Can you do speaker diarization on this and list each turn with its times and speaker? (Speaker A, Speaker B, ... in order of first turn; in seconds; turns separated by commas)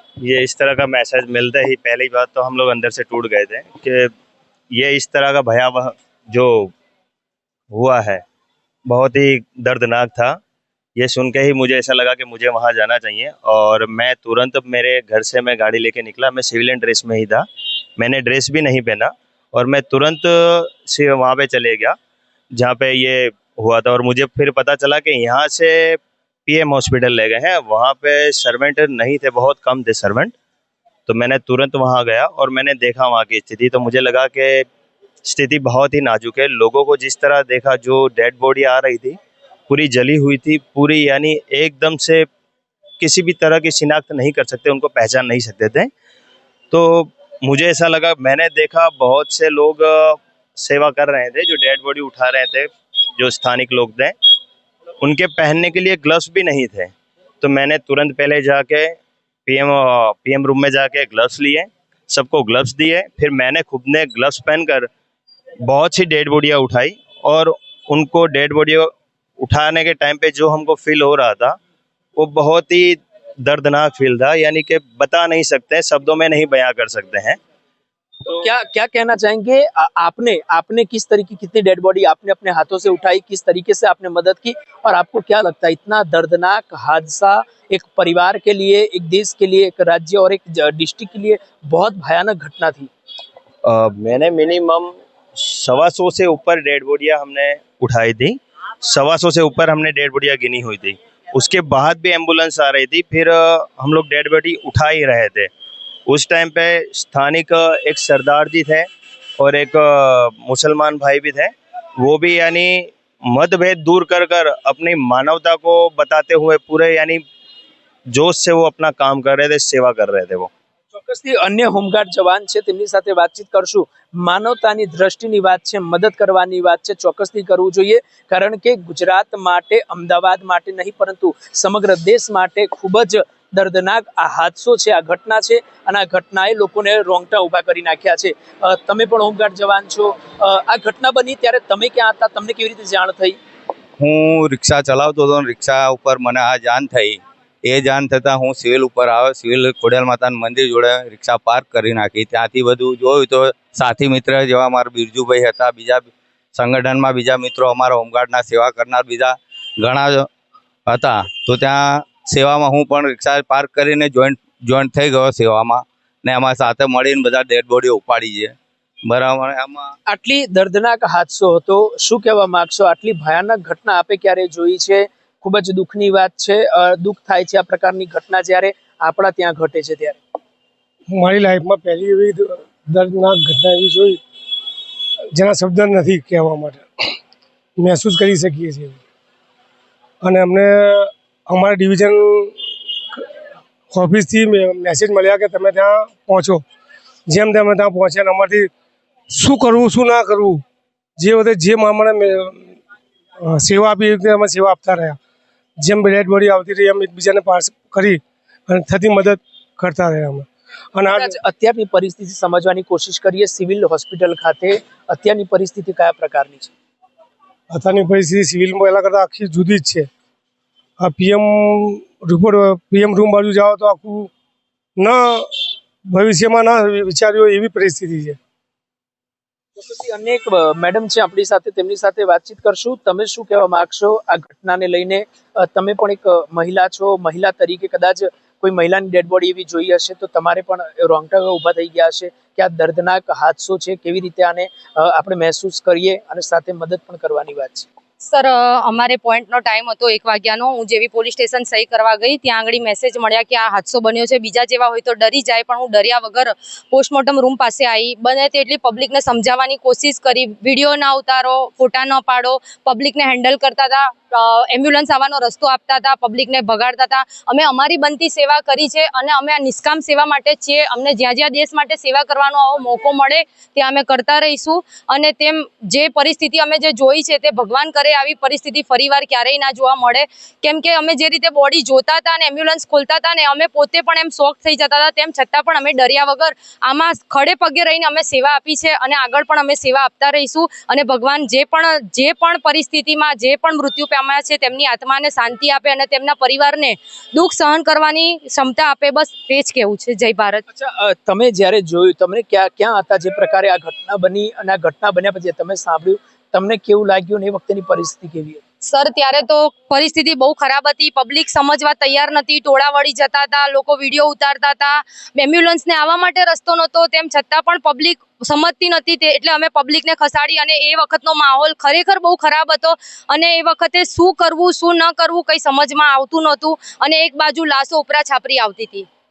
Speaker A: 0.2-4.1, Speaker A: 4.7-6.7, Speaker A: 7.7-8.2, Speaker A: 8.9-10.4, Speaker A: 11.0-17.5, Speaker A: 18.0-22.0, Speaker A: 22.6-30.3, Speaker A: 31.1-34.7, Speaker A: 35.2-39.2, Speaker A: 39.7-42.3, Speaker A: 43.0-45.9, Speaker A: 46.7-54.1, Speaker A: 55.0-59.0, Speaker A: 59.5-64.9, Speaker A: 65.6-71.6, Speaker A: 72.2-77.4, Speaker B: 78.2-92.9, Speaker A: 93.7-105.5, Speaker A: 106.1-108.9, Speaker A: 109.4-117.2, Speaker A: 118.1-120.5, Speaker B: 120.9-143.4, Speaker C: 144.0-160.3, Speaker C: 160.9-169.9, Speaker B: 170.1-180.2, Speaker D: 181.1-184.2, Speaker D: 185.3-186.8, Speaker D: 187.8-189.0, Speaker D: 190.2-192.6, Speaker D: 193.9-196.6, Speaker D: 197.3-198.7, Speaker D: 199.3-200.6, Speaker D: 201.2-202.7, Speaker D: 203.4-205.2, Speaker D: 205.8-211.4, Speaker B: 211.1-216.7, Speaker D: 217.7-220.1, Speaker D: 221.0-224.3, Speaker D: 225.0-225.5, Speaker D: 226.1-228.4, Speaker B: 229.8-247.9, Speaker E: 248.2-300.6, Speaker B: 300.7-308.6, Speaker E: 308.8-329.1